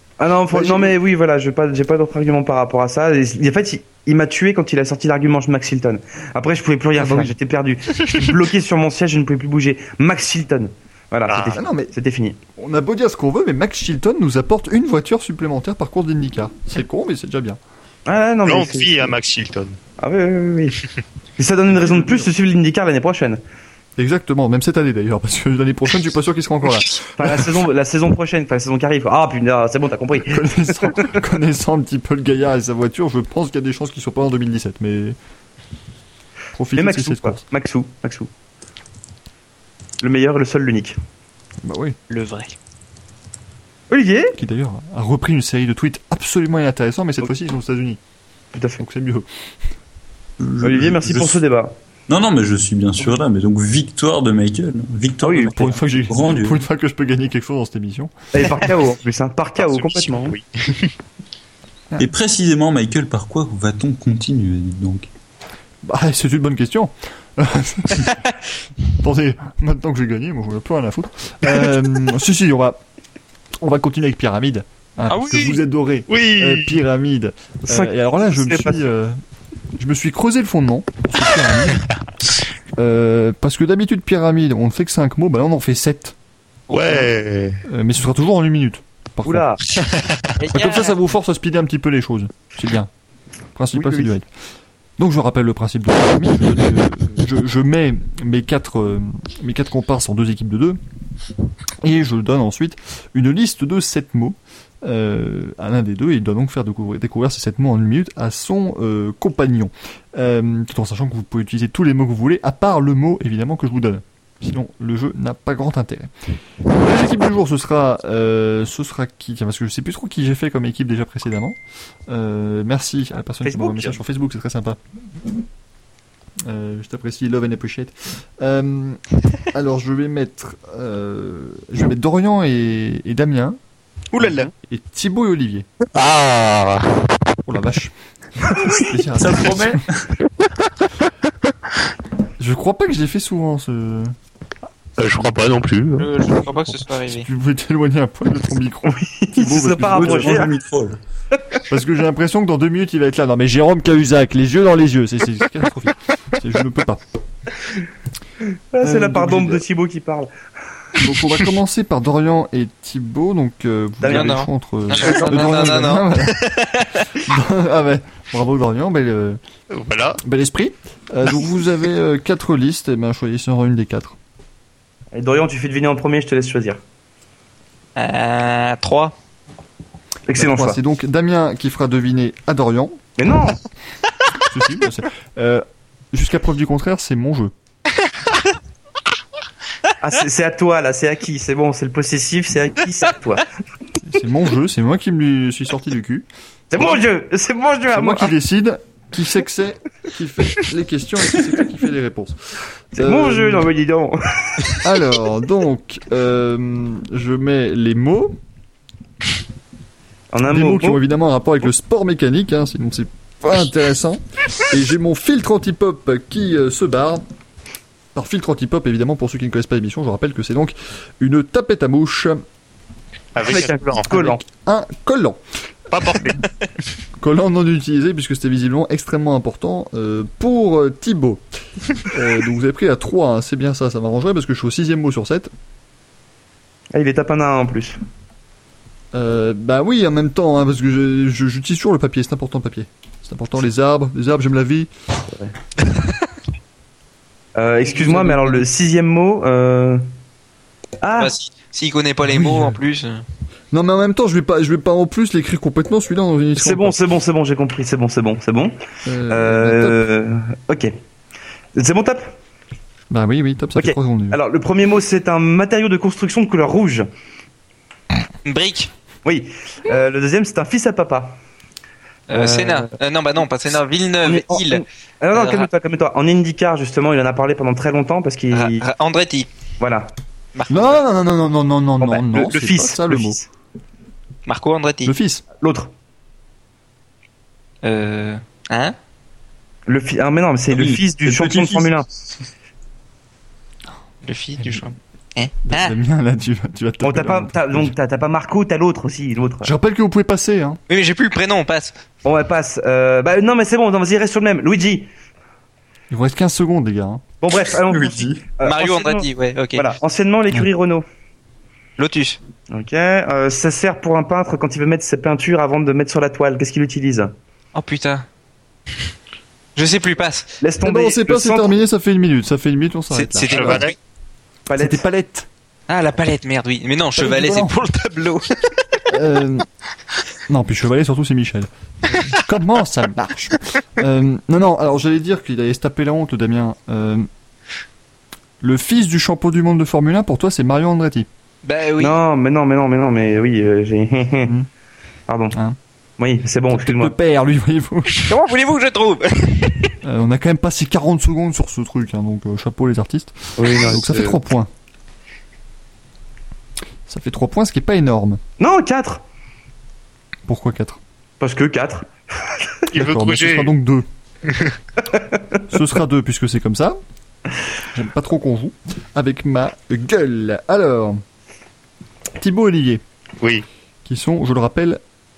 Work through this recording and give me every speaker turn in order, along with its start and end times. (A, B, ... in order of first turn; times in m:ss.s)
0:00.2-0:12.4 A
0:00.5-0:00.9 B
0:07.0-0:07.3 B
0:11.3-0:11.6 C
0:11.5-0:11.9 B
0:12.6-0:17.6 B
0:18.1-0:19.1 A
0:18.4-0:19.8 C
0:20.0-0:20.8 A
0:21.4-0:23.4 A
0:21.8-0:22.3 B
0:24.0-0:27.5 B
0:27.1-0:31.2 A
0:30.3-0:35.2 B
0:36.5-0:37.4 B
0:36.7-0:38.3 A
0:40.0-0:41.0 A
0:41.6-0:42.0 B
0:42.1-0:42.5 D
0:43.9-0:44.4 A
0:44.3-0:48.0 B
0:48.5-0:48.8 A
0:48.8-0:49.3 B
0:50.4-0:51.4 E
0:50.6-0:51.8 A
0:52.1-0:56.6 E
0:55.2-0:55.7 A
0:55.4-0:58.1 B
0:58.3-1:00.3 A
0:59.6-1:00.9 C
1:02.0-1:05.1 E
1:05.8-1:08.2 B
1:08.9-1:12.8 B
1:13.6-1:19.2 B
1:15.1-1:15.6 D
1:16.1-1:16.8 C
1:17.7-1:18.8 A
1:19.8-1:21.9 B
1:22.8-1:26.2 B
1:26.7-1:27.6 C
1:27.7-1:29.9 B
1:29.2-1:29.6 A
1:29.8-1:30.2 C
1:30.4-1:30.9 D
1:30.5-1:32.9 B
1:33.5-1:34.3 B
1:33.7-1:34.1 A
1:35.0-1:40.8 B
1:41.8-1:56.1 B
1:56.6-2:04.8 B
2:03.4-2:04.0 A
2:06.4-2:13.6 B
2:14.1-2:14.5 D
2:14.2-2:15.7 B
2:15.9-2:16.9 C
2:17.4-2:19.8 B
2:19.2-2:20.1 E
2:22.4-2:24.2 B
2:25.0-2:26.1 C
2:26.0-2:27.2 D
2:26.5-2:30.4 B
2:28.8-2:30.5 A
2:29.8-2:31.0 E
2:31.7-2:37.0 B
2:38.7-2:40.3 A
2:38.8-2:39.6 B
2:41.0-2:46.6 B
2:44.0-2:44.4 A
2:44.1-2:47.1 D
2:45.0-2:45.5 A
2:47.1-2:49.4 B
2:49.7-2:50.2 C
2:50.2-2:54.2 B
2:55.1-2:56.8 A
2:58.0-2:59.1 D
3:00.3-3:00.8 A
3:00.3-3:03.0 B
3:03.2-3:03.6 A
3:04.4-3:07.5 B
3:10.0-3:13.5 A
3:14.0-3:17.0 B
3:16.7-3:18.3 A
3:17.9-3:22.4 B
3:22.9-3:23.7 B
3:23.0-3:24.8 A
3:24.8-3:28.4 B
3:30.3-3:31.0 A
3:30.5-3:37.2 B
3:38.1-3:42.4 B
3:43.3-3:44.1 C
3:43.4-3:44.4 A
3:44.1-3:45.4 B
3:45.9-3:46.5 C
3:47.2-3:55.5 B
3:56.9-3:58.0 A
3:59.1-4:04.9 B
4:07.5-4:10.0 A
4:08.0-4:08.6 B
4:11.0-4:11.3 A
4:11.2-4:13.2 D
4:12.2-4:12.8 B
4:13.7-4:17.0 B
4:16.6-4:18.8 A
4:19.0-4:20.0 B
4:19.3-4:20.9 A
4:21.7-4:22.3 A
4:23.1-4:24.4 B
4:23.8-4:27.1 A
4:28.4-4:28.9 D
4:29.2-4:31.4 A
4:32.3-4:35.7 D
4:32.3-4:32.9 A
4:34.2-4:38.8 A
4:38.5-4:39.5 D
4:39.8-4:40.1 A
4:40.5-4:41.0 D
4:40.7-4:43.4 B
4:42.0-4:43.4 A
4:44.4-4:45.1 D
4:45.0-4:45.4 B
4:45.6-4:45.9 A
4:47.8-4:48.9 D
4:49.9-4:52.0 A
4:50.7-4:51.9 E
4:54.2-4:55.9 D
4:55.6-4:57.9 B
4:57.0-4:59.7 A
4:59.6-5:00.8 B
5:00.9-5:01.9 D
5:02.2-5:05.1 A
5:06.1-5:07.2 B
5:07.4-5:11.0 A
5:07.9-5:08.4 E
5:08.6-5:09.8 D
5:12.0-5:12.4 D
5:12.7-5:17.3 A
5:17.7-5:18.2 D
5:19.8-5:20.5 D
5:20.6-5:21.7 A
5:20.8-5:23.9 B
5:23.1-5:23.9 D
5:23.5-5:23.9 C
5:24.7-5:25.0 A
5:24.8-5:25.5 B
5:25.9-5:28.7 D
5:27.2-5:27.7 B
5:29.1-5:29.6 B
5:30.5-5:37.3 B
5:38.6-5:41.3 B
5:41.6-5:42.2 D
5:42.0-5:44.6 A
5:45.3-5:45.6 A
5:45.5-5:45.8 B
5:46.2-5:47.1 A
5:46.7-5:48.4 B
5:48.1-5:49.9 D
5:50.0-5:54.7 B
5:53.6-5:54.4 A
5:57.1-5:58.4 B
5:58.6-5:59.2 A
6:00.5-6:01.0 B
6:01.4-6:02.7 A
6:02.9-6:03.7 C
6:02.9-6:04.1 B
6:04.4-6:04.7 C
6:05.1-6:05.6 A
6:05.7-6:07.0 B
6:07.9-6:11.2 B
6:12.4-6:13.0 B
6:14.0-6:15.0 B